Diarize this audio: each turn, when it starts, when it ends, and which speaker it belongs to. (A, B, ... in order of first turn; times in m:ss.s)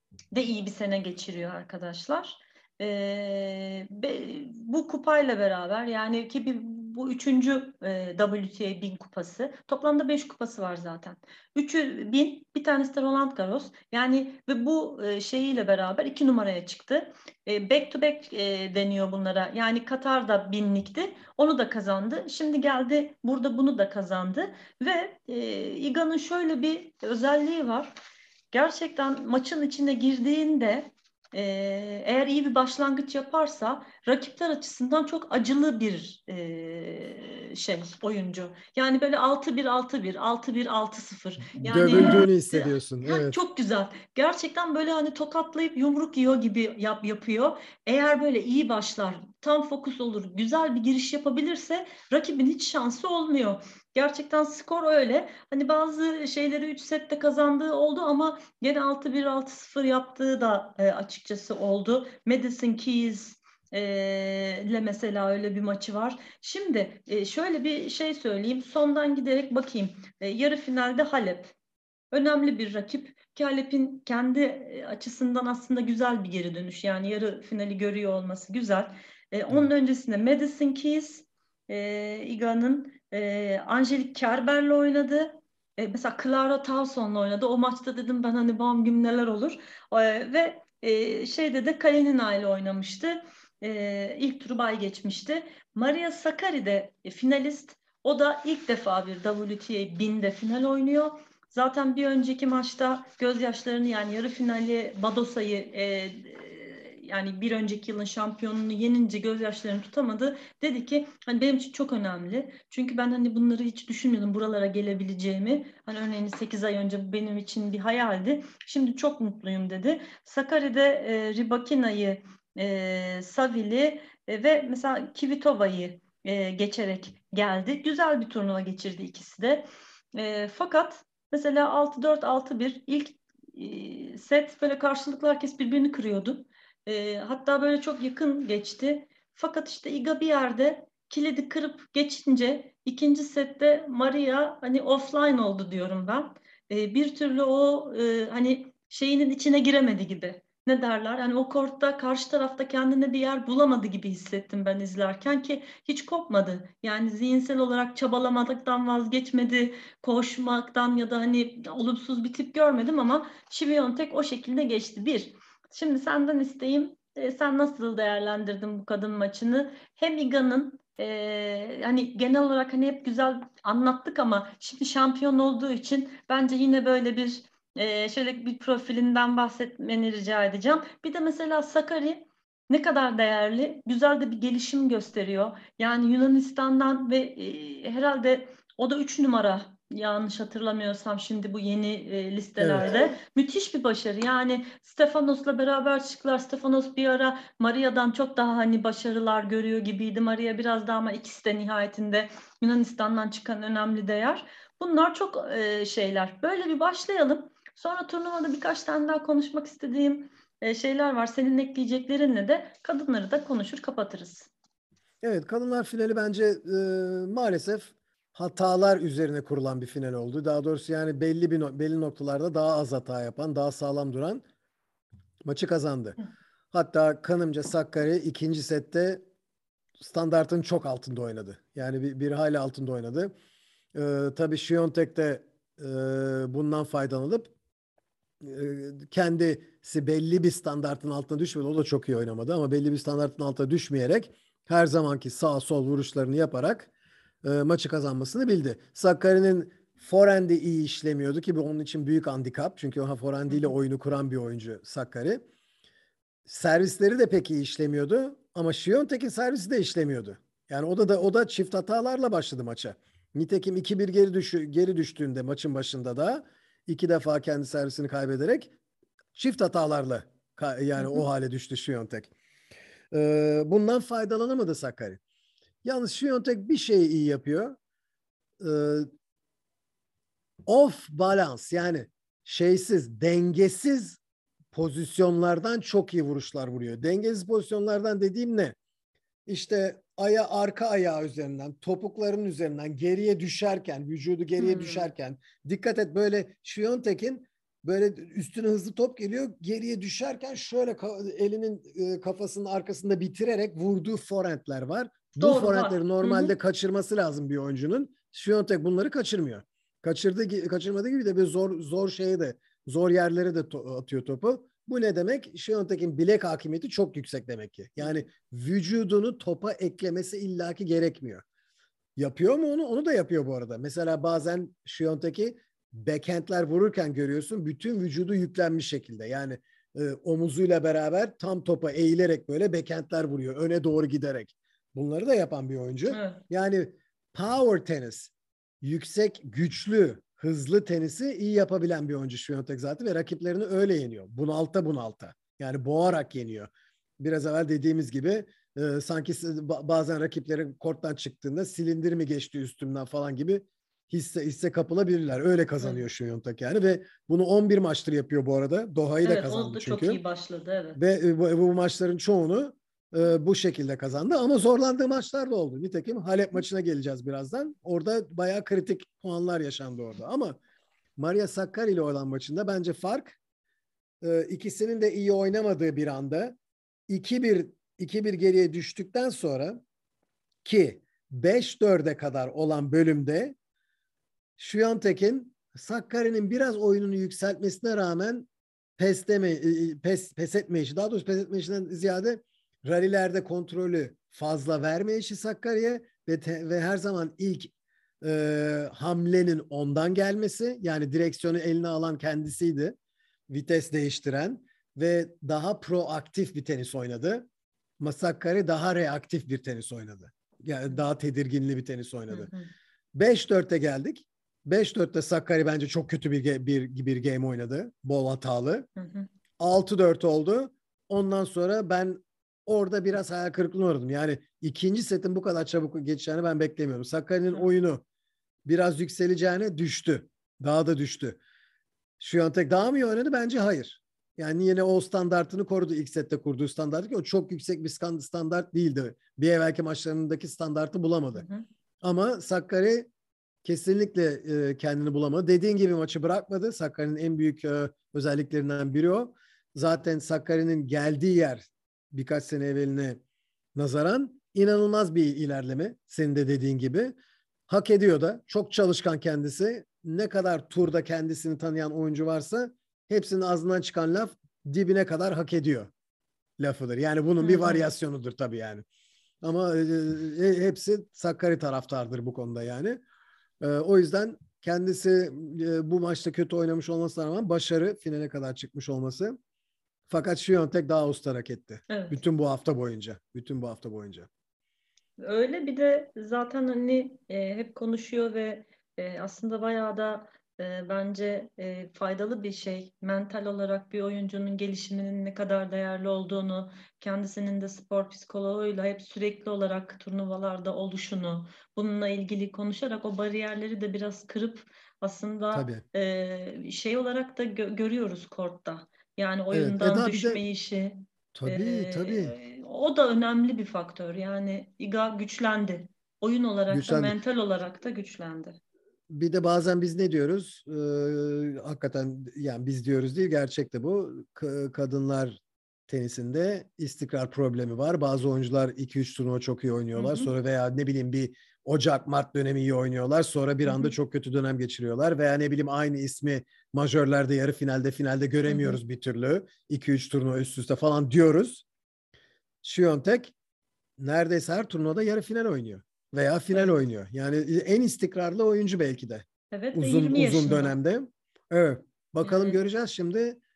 0:00.3-0:27.9 A
0:28.5-1:11.5 A
0:41.6-0:43.4 B
1:12.1-3:34.5 A
3:12.6-3:13.1 B
3:35.2-3:44.4 B
3:45.4-3:46.2 B
3:46.7-3:49.2 B
3:50.0-3:53.3 B
3:53.9-3:57.5 B
3:58.4-4:06.9 B
4:07.4-4:15.4 B
4:13.5-4:13.7 A
4:16.5-4:28.7 B
4:29.3-4:32.3 B
4:31.0-4:31.2 A
4:33.1-4:35.2 B
4:35.8-4:37.8 B
4:38.6-4:39.1 B
4:40.6-4:44.2 B
4:44.7-4:48.8 B
4:49.4-5:21.4 B
4:54.6-4:55.1 A
5:05.4-5:06.5 A
5:18.0-5:18.2 A
5:22.2-5:46.7 B
5:36.1-5:36.4 A
5:47.2-6:00.2 B
5:59.2-6:01.0 A
6:00.9-6:10.6 B
6:11.2-6:13.4 B
6:14.2-6:16.6 B
6:17.1-6:19.8 B
6:20.6-6:23.5 B
6:24.6-6:42.9 B
6:43.5-6:47.4 B
6:48.0-6:52.5 B
6:52.3-6:52.7 A
6:53.1-6:58.9 B
6:59.0-6:59.3 A
6:59.6-7:08.0 B
7:08.6-7:11.4 B
7:12.2-7:21.4 B
7:21.3-7:21.6 A
7:22.0-7:23.1 B
7:23.6-7:33.2 B
7:33.7-7:37.2 B
7:37.7-7:45.9 B
7:46.6-7:48.8 B
7:47.4-7:47.9 A
7:49.4-7:53.0 B
7:53.6-7:59.4 B
8:00.1-8:04.3 B
8:01.9-8:02.2 A
8:05.2-8:38.6 A
8:25.5-8:25.8 B
8:29.5-8:30.4 B
8:31.3-8:32.3 B
8:36.7-8:37.2 B
8:39.1-9:01.6 B
8:49.9-8:50.3 A
8:53.6-8:53.9 A
8:58.5-8:58.8 A
9:02.6-9:03.3 B
9:04.0-9:13.4 B
9:06.5-9:06.8 A
9:09.5-9:10.7 A
9:12.2-9:12.6 A